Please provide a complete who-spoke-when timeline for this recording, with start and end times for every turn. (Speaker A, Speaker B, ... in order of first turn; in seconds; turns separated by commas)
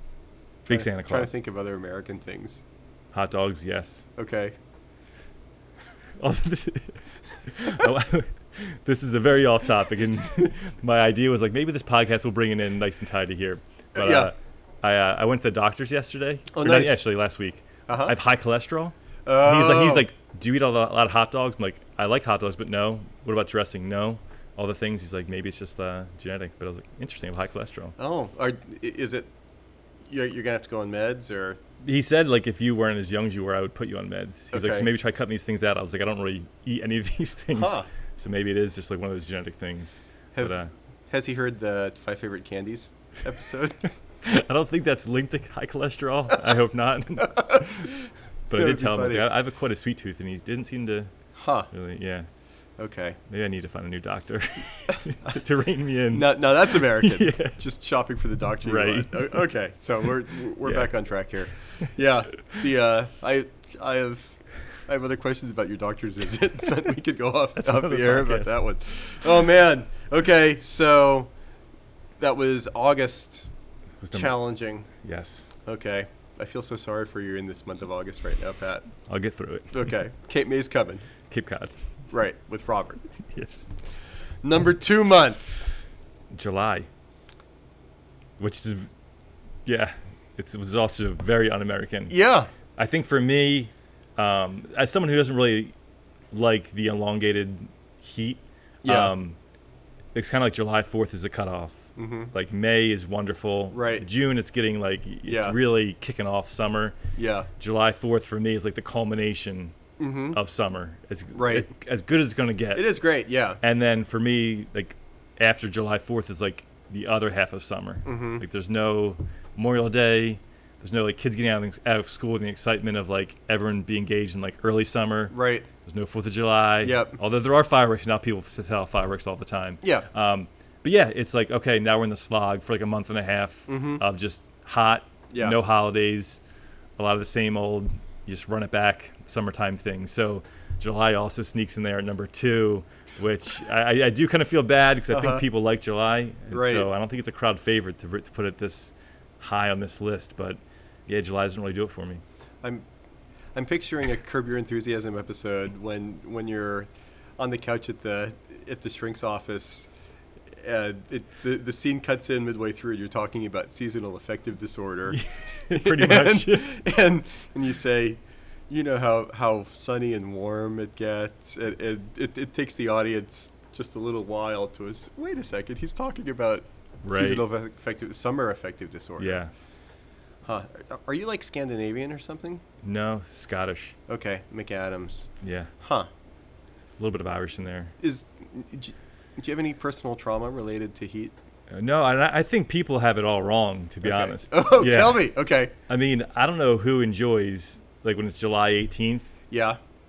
Speaker A: 0.7-2.6, Speaker B: 0.7-1.4, Speaker B: 3.1-4.1, Speaker A: 4.2-4.6, Speaker B: 6.2-27.9, Speaker A: 13.9-14.3, Speaker A: 16.5-17.0, Speaker A: 17.9-18.1, Speaker A: 19.2-20.1, Speaker A: 28.0-29.3, Speaker A: 30.1-31.6, Speaker B: 31.8-40.7, Speaker A: 34.5-34.9, Speaker A: 37.5-37.9, Speaker A: 41.1-43.9, Speaker B: 44.2-47.9, Speaker A: 47.2-49.3, Speaker B: 48.5-51.1, Speaker A: 51.4-51.7, Speaker B: 51.7-52.3, Speaker A: 52.8-53.2, Speaker B: 53.3-57.6, Speaker A: 54.9-55.4, Speaker A: 56.1-71.3, Speaker B: 58.6-59.4, Speaker B: 60.6-60.9, Speaker B: 67.6-68.6, Speaker A: 72.2-73.5, Speaker B: 74.0-74.4, Speaker A: 74.1-74.9, Speaker B: 74.9-75.5, Speaker A: 75.6-78.9, Speaker B: 79.1-79.9, Speaker A: 79.7-81.1, Speaker B: 81.3-81.8, Speaker A: 82.1-83.0, Speaker B: 83.3-83.6, Speaker A: 84.4-85.6, Speaker B: 86.3-86.9, Speaker B: 88.4-88.9, Speaker B: 89.6-92.1, Speaker A: 92.1-92.5, Speaker B: 92.8-95.7, Speaker B: 96.3-99.4, Speaker A: 98.8-99.1, Speaker B: 100.1-107.0, Speaker A: 102.0-102.3, Speaker A: 103.7-104.1, Speaker A: 105.2-105.6, Speaker A: 107.2-107.5, Speaker B: 107.6-109.8, Speaker A: 110.0-110.4, Speaker B: 110.3-113.0, Speaker A: 111.3-111.7, Speaker A: 112.7-113.6, Speaker B: 113.6-125.3, Speaker A: 118.0-118.4, Speaker A: 125.3-125.7, Speaker B: 125.8-136.4, Speaker A: 126.8-127.2, Speaker A: 129.8-130.1, Speaker A: 133.7-134.0, Speaker A: 135.3-135.6, Speaker B: 137.0-152.2, Speaker A: 145.1-145.4, Speaker A: 146.5-146.9, Speaker A: 153.6-159.9, Speaker A: 160.6-179.4, Speaker B: 165.1-166.8, Speaker B: 177.0-177.4, Speaker B: 179.2-179.5, Speaker A: 180.4-182.6, Speaker B: 182.8-184.0, Speaker A: 184.1-186.1, Speaker B: 185.4-185.7, Speaker B: 187.0-187.9, Speaker A: 188.0-191.3, Speaker B: 191.7-195.3, Speaker A: 194.0-195.7, Speaker B: 195.9-199.3, Speaker A: 199.5-199.8